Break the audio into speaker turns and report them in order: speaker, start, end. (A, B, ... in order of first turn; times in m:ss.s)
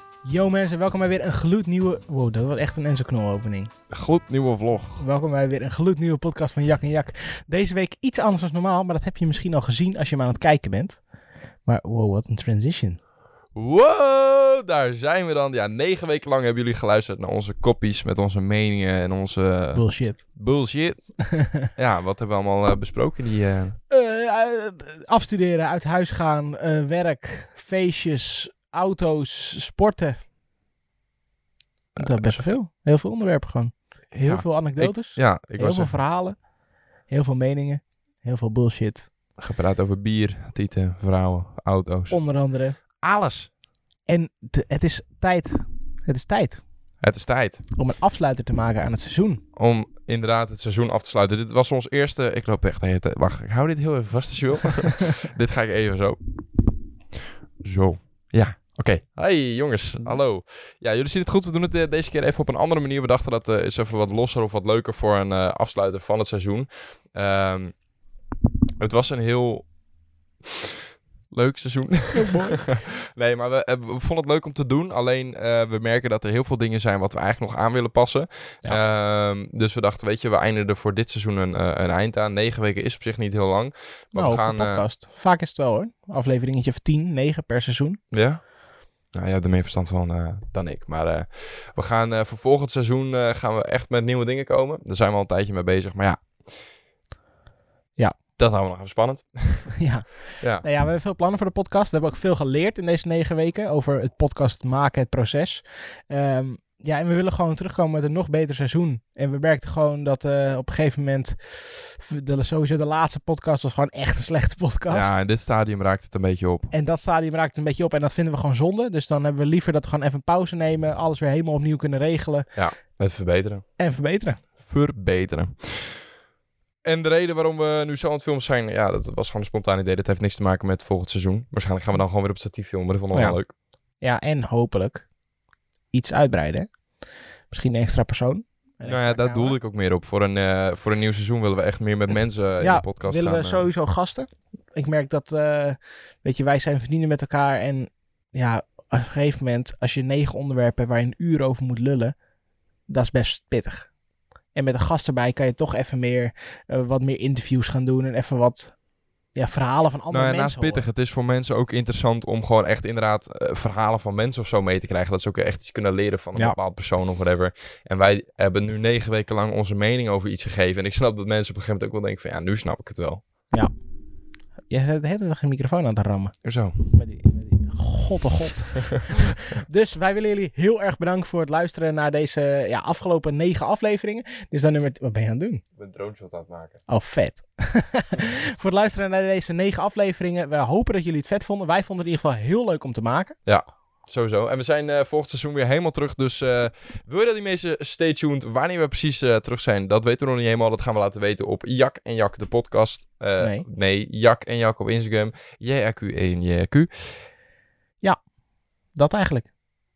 0:00.2-0:03.7 A
0:03.9-0:05.0 B
0:05.0-0:11.0 A
0:11.6-0:13.0 A
0:13.5-0:23.8 B
0:19.7-0:20.4 A
0:23.9-0:30.2 A
0:32.0-0:32.3 B
0:32.0-0:36.5 A
0:34.2-0:35.9 B
0:37.0-0:39.1 A
0:39.4-0:42.2 B
0:42.1-0:42.8 A
0:42.8-0:43.5 B
0:44.0-0:46.7 A
0:47.0-0:47.7 B
0:47.7-0:49.4 A
0:49.6-0:56.2 B
0:57.6-1:07.8 B
1:08.8-1:09.7 B
1:11.3-1:24.8 B
1:12.1-1:12.6 A
1:24.1-1:28.0 A
1:28.1-1:28.4 B
1:29.1-1:36.5 B
1:38.4-1:39.8 B
1:39.8-1:55.2 A
1:40.4-1:40.6 B
1:54.9-1:56.7 B
1:56.7-2:02.5 A
2:02.5-2:03.6 B
2:03.8-2:04.4 A
2:04.6-2:06.0 B
2:06.8-2:13.5 B
2:13.1-2:13.4 A
2:14.0-2:15.1 A
2:15.9-2:16.7 A
2:17.5-2:19.6 A
2:18.8-2:23.6 B
2:22.6-2:32.2 A
2:32.9-2:33.9 A
2:34.5-2:38.8 A
2:39.3-2:40.9 A
2:40.1-2:53.2 B
2:54.7-3:05.6 A
2:56.4-2:56.8 B
3:05.8-3:06.8 B
3:06.9-3:13.4 A
3:13.4-3:26.9 B
3:23.4-3:23.6 A
3:28.9-3:29.5 A